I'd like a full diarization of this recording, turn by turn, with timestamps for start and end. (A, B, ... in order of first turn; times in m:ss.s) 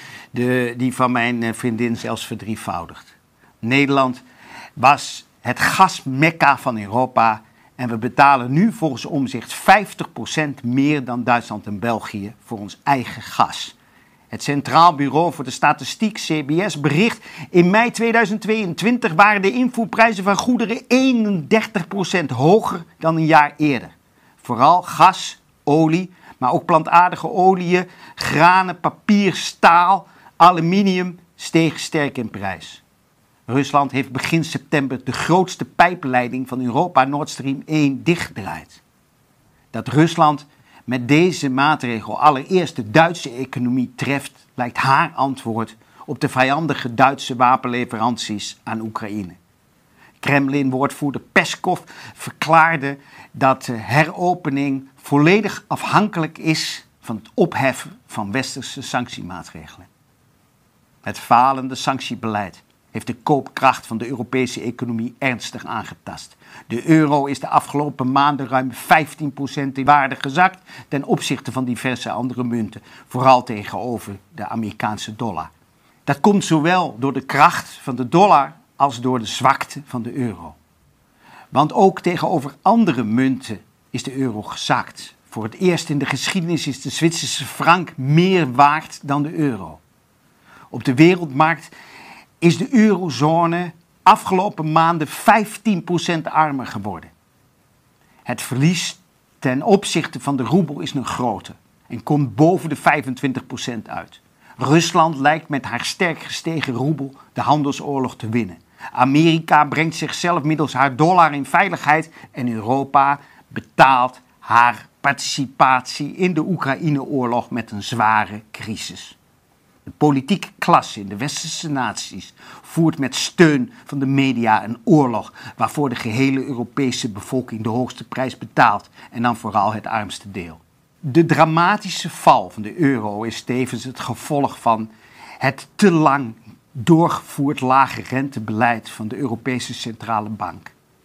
0:00.3-0:04.2 A
0:04.8-0:13.7 A
0:14.3-0:32.8 A
0:33.5-0:38.8 A
0:39.7-0:49.4 A
0:50.2-0:59.9 A
1:01.0-1:15.5 A
1:16.0-1:20.6 A
1:21.5-1:29.8 A
1:30.7-1:31.7 A
1:32.4-1:37.1 A
1:38.2-1:59.2 A
1:59.9-2:20.7 A